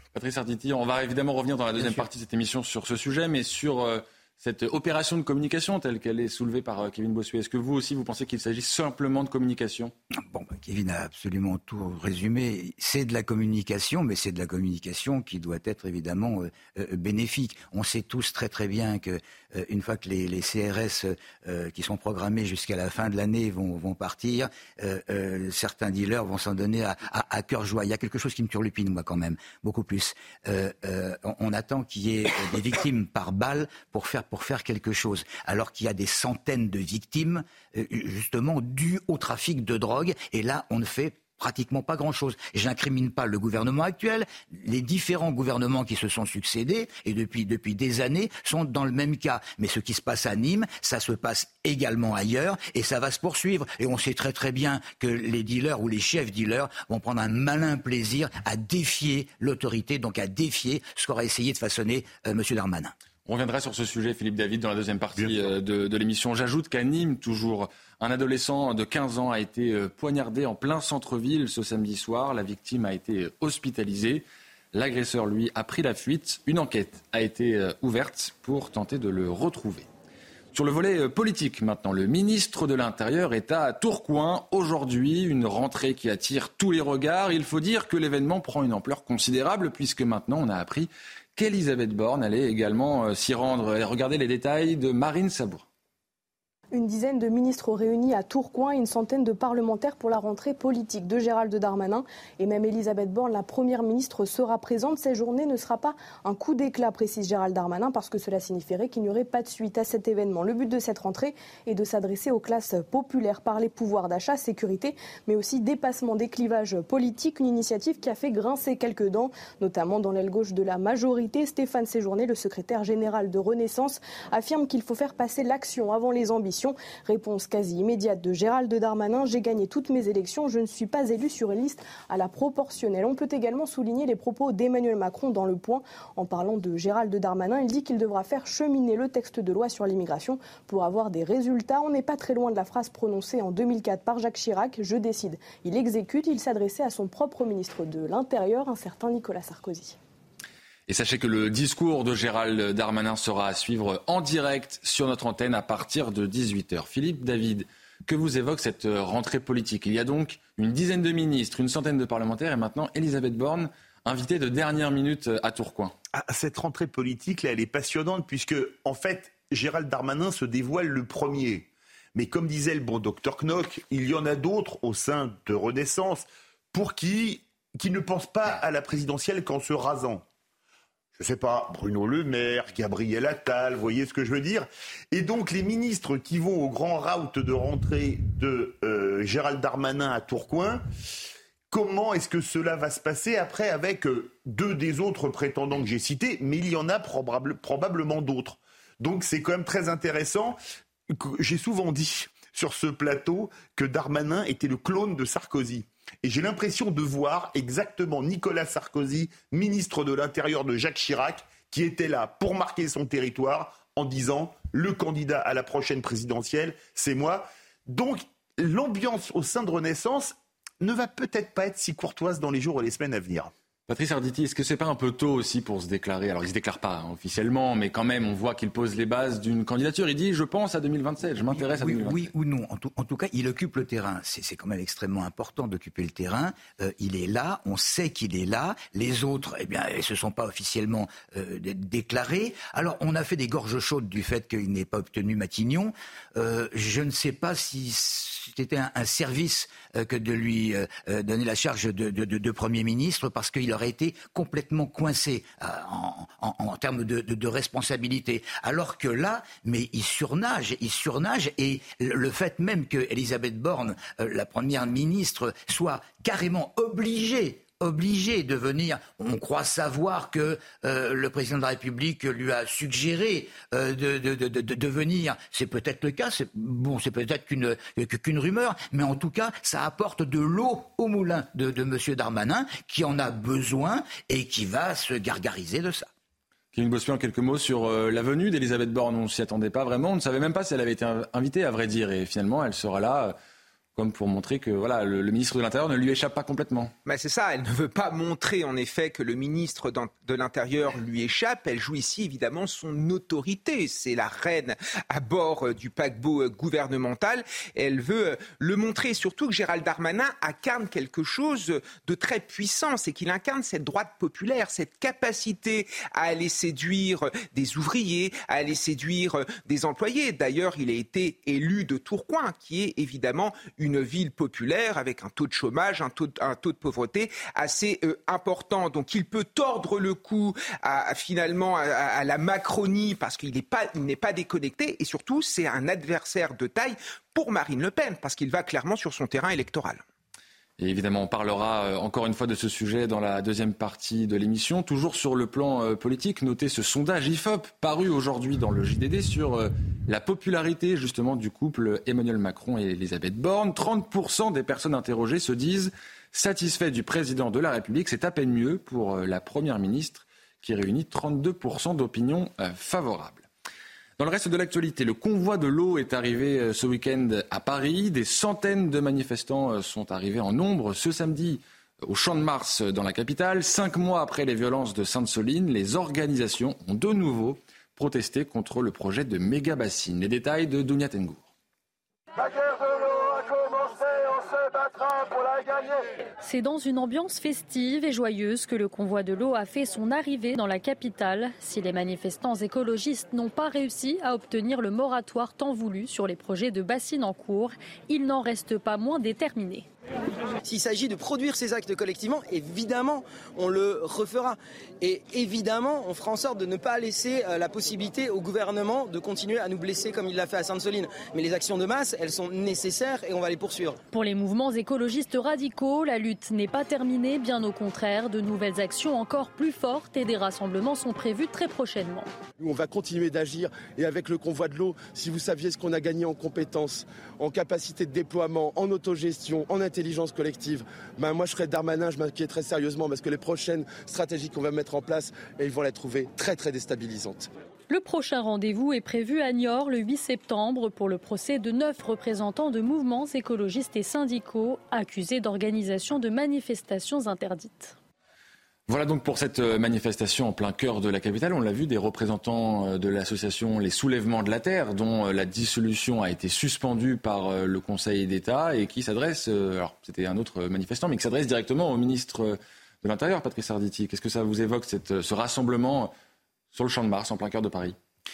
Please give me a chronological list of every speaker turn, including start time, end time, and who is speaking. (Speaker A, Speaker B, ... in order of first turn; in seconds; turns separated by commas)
Speaker A: 0.1-9.9, Speaker B: 10.1-62.9, Speaker A: 63.2-79.8, Speaker A: 80.5-95.6, Speaker C: 96.7-149.9, Speaker A: 150.9-165.9, Speaker D: 166.1-180.2, Speaker D: 181.2-190.8, Speaker D: 191.7-200.6, Speaker D: 201.1-223.5, Speaker A: 223.9-232.3, Speaker B: 231.6-286.1, Speaker A: 286.7-293.3, Speaker A: 293.9-296.9, Speaker E: 297.1-340.0, Speaker A: 340.8-363.4, Speaker A: 364.2-381.5, Speaker F: 386.4-399.9, Speaker G: 400.6-414.0, Speaker F: 414.1-422.3, Speaker H: 422.6-437.5, Speaker F: 437.9-447.9, Speaker A: 448.9-466.1, Speaker A: 466.7-467.9